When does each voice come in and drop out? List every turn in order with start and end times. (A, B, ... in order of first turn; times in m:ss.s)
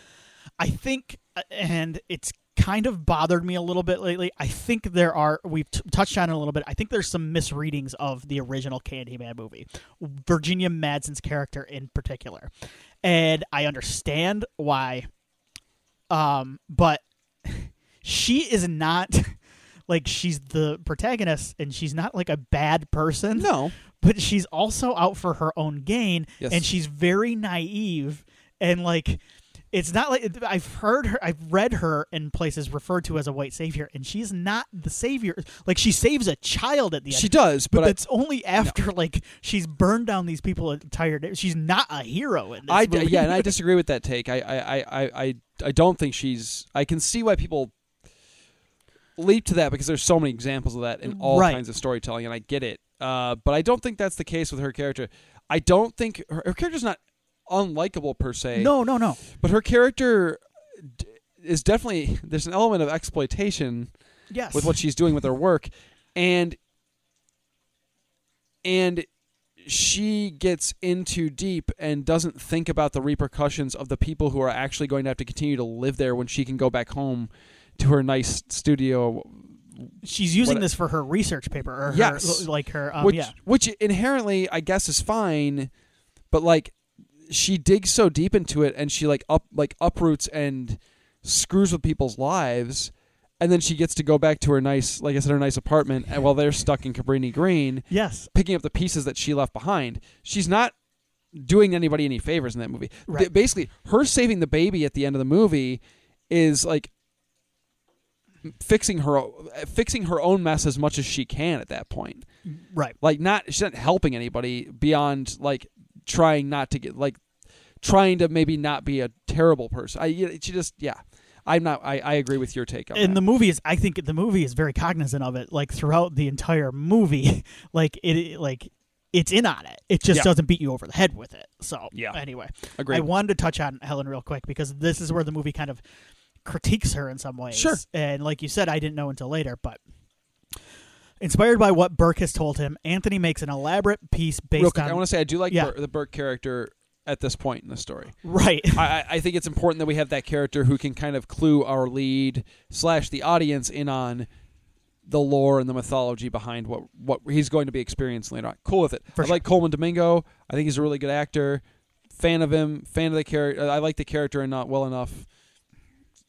0:00.6-0:12.5 A
0:13.0-0:15.1 A
0:16.1-0:19.4 A
0:19.9-0:29.2 A
0:23.4-0:23.8 B
0:26.4-0:26.6 B
0:29.7-0:43.5 A
0:37.1-0:38.0 B
0:42.7-0:47.7 B
0:49.2-0:58.7 B
0:51.1-0:51.6 A
0:58.6-0:59.2 A
0:59.3-1:03.9 B
1:04.3-1:04.8 A
1:04.5-1:06.6 B
1:08.6-1:09.1 B
1:09.6-1:20.7 B
1:20.0-1:23.3 A
1:21.9-1:22.5 B
1:23.0-1:25.7 B
1:26.3-1:40.7 B
1:37.9-1:38.3 A
1:41.3-1:46.9 B
1:48.4-1:52.2 B
1:52.5-1:53.0 A
1:53.0-1:57.2 B
1:57.8-2:03.2 B
2:02.9-2:15.8 A
2:11.9-2:12.2 B
2:12.8-2:13.1 B
2:16.4-2:19.8 A
2:17.5-2:17.8 B
2:21.2-2:25.7 A
2:24.6-2:28.2 B
2:28.2-2:28.9 A
2:28.8-2:34.3 B
2:35.1-2:41.6 B
2:39.2-2:39.4 A
2:42.1-2:45.3 B